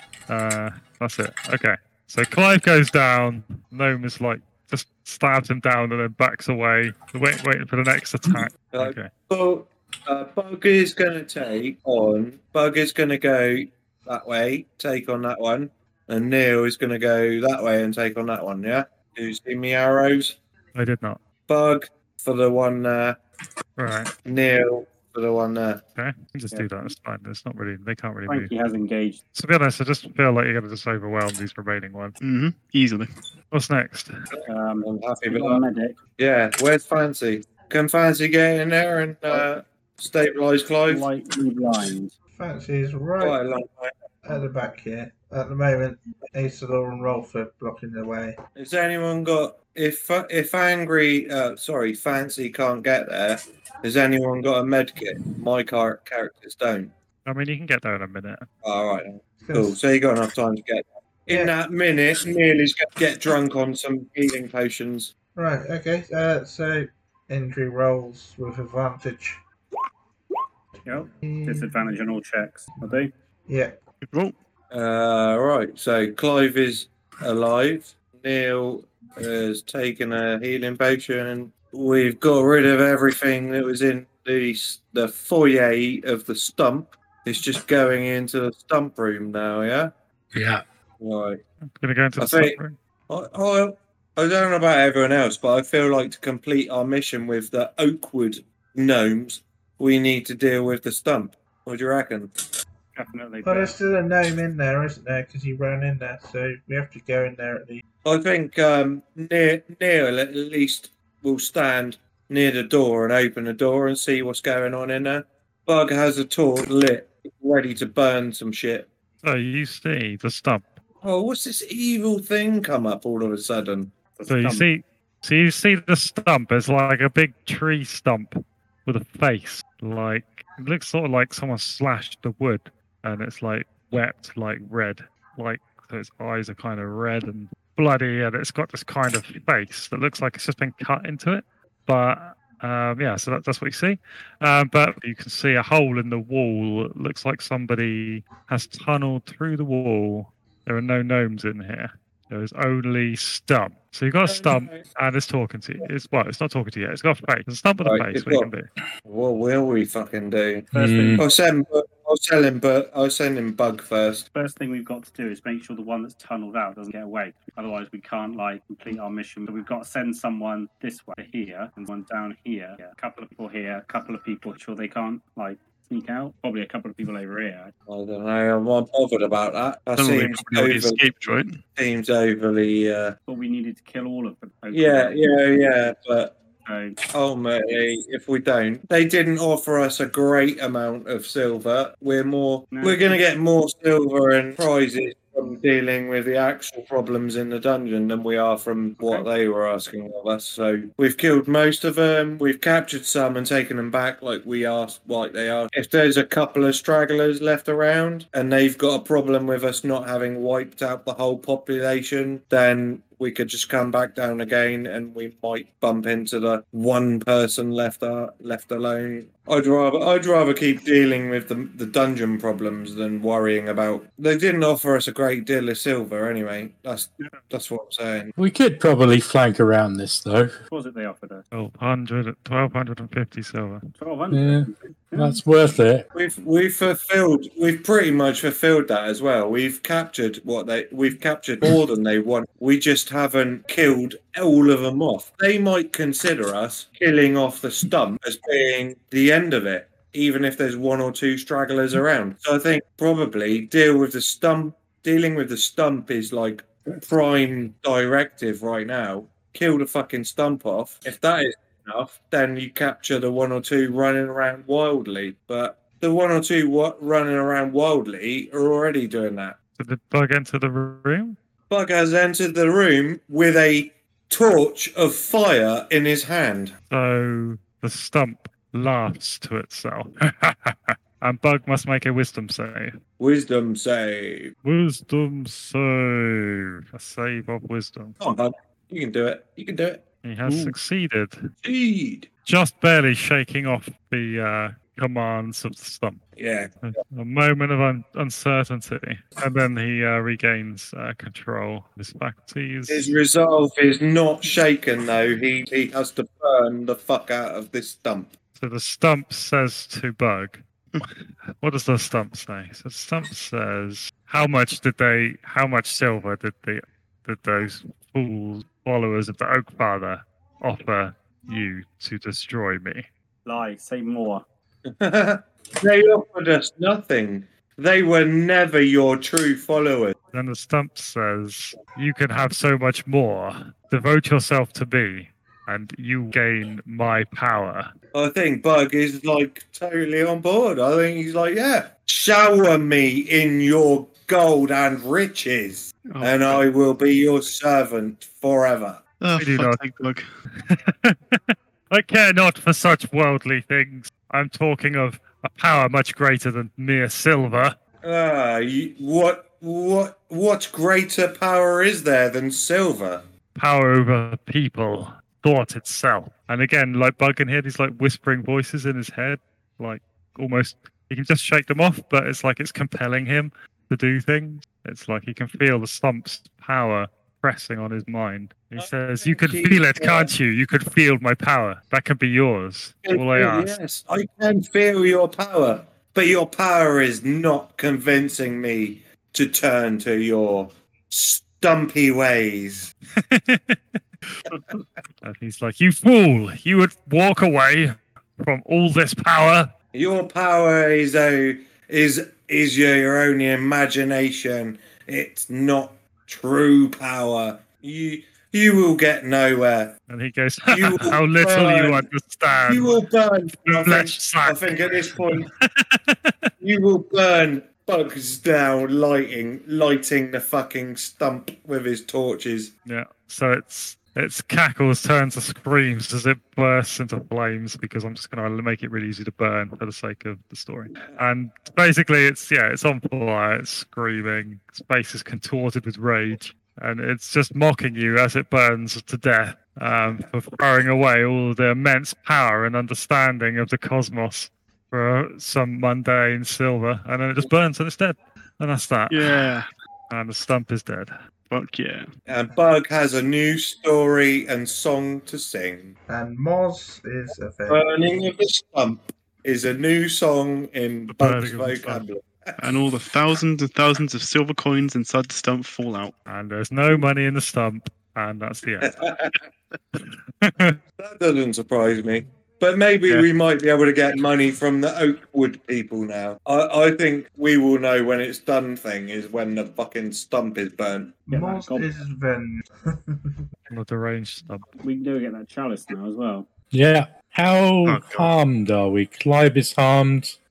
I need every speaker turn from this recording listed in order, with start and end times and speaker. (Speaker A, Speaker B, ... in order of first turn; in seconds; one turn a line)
Speaker A: 0.3-9.1
Speaker B: 8.7-20.4
Speaker A: 20.7-21.2
Speaker B: 21.5-23.2
Speaker A: 23.8-24.1
Speaker B: 24.2-25.8
Speaker A: 26.0-28.5
Speaker C: 26.5-26.9
Speaker C: 28.3-29.2
Speaker A: 29.3-32.1
Speaker D: 32.2-33.1
Speaker A: 33.5-34.1
Speaker B: 34.3-35.6
Speaker C: 34.5-36.0
Speaker B: 36.2-41.0
Speaker C: 40.9-42.1
Speaker E: 42.4-43.4
Speaker B: 43.2-43.9
Speaker E: 44.2-48.4
Speaker B: 48.5-56.9
Speaker A: 57.2-58.5
Speaker B: 58.6-65.1
Speaker E: 59.4-59.8
Speaker E: 65.3-69.4
Speaker E: 70.8-71.9
Speaker C: 70.8-73.1
Speaker E: 72.8-73.8
Speaker D: 74.0-74.3
Speaker B: 74.7-89.9
Speaker F: 90.3-90.6
Speaker B: 91.0-91.4
Speaker A: 91.8-92.8
Speaker B: 92.2-92.6
Speaker B: 93.1-102.3
Speaker C: 102.9-103.7
Speaker E: 103.4-107.8
Speaker B: 108.0-118.9
Speaker A: 119.2-120.8
Speaker B: 121.0-123.9
Speaker C: 124.2-124.7
Speaker A: 124.3-128.3
Speaker A: 128.8-158.7
Speaker B: 154.2-154.8
Speaker B: 157.8-158.5
Speaker B: 159.0-164.2
Speaker C: 160.7-161.3
Speaker F: 160.7-161.2
Speaker C: 164.3-177.7
Speaker B: 177.9-181.0
Speaker D: 179.9-181.6
Speaker B: 181.8-183.2
Speaker C: 183.3-185.2
Speaker B: 184.7-186.4
Speaker C: 186.6-187.0
Speaker B: 187.1-228.3
Speaker C: 192.7-193.2
Speaker C: 199.0-199.2
Speaker F: 228.4-230.5
Speaker C: 230.7-231.4
Speaker A: 231.5-233.9
Speaker C: 234.0-235.4
Speaker F: 234.3-236.0
Speaker B: 236.1-269.6
Speaker A: 269.8-271.4
Speaker B: 271.7-276.7
Speaker A: 276.9-282.9
Speaker B: 283.2-284.5
Speaker A: 284.6-288.2
Speaker B: 288.2-290.0
Speaker A: 290.2-291.5
Speaker D: 290.4-290.7
Speaker B: 291.6-292.3
Speaker A: 292.4-296.2
Speaker B: 296.4-296.8
Speaker A: 296.8-303.1
Speaker B: 302.9-308.3
Speaker A: 308.6-323.1
Speaker C: 323.4-324.4
Speaker B: 324.9-330.2
Speaker A: 330.3-337.9
Speaker B: 338.1-349.0
Speaker D: 346.1-346.6
Speaker D: 349.2-350.2
Speaker A: 349.4-349.8
Speaker A: 350.6-357.8
Speaker B: 358.0-363.2
Speaker A: 363.6-383.7
Speaker B: 378.8-380.3
Speaker B: 383.0-392.9
Speaker A: 393.1-393.8
Speaker A: 395.2-399.7
Speaker B: 399.9-409.9
Speaker A: 410.1-412.9
Speaker B: 410.7-412.1
Speaker B: 412.6-415.5
Speaker A: 413.6-416.5
Speaker B: 416.6-422.7
Speaker A: 422.9-449.4
Speaker D: 449.1-449.7
Speaker A: 450.1-451.1
Speaker D: 451.5-452.1
Speaker B: 452.3-455.9
Speaker E: 456.1-457.8
Speaker B: 457.7-462.7
Speaker A: 461.1-462.0
Speaker D: 462.6-466.1
Speaker A: 466.3-468.9
Speaker B: 468.8-469.5
Speaker A: 470.0-470.8
Speaker B: 471.0-481.2
Speaker E: 481.3-483.4
Speaker C: 481.3-481.9
Speaker A: 483.7-484.6
Speaker C: 484.8-486.5
Speaker F: 486.7-490.4
Speaker D: 487.8-488.3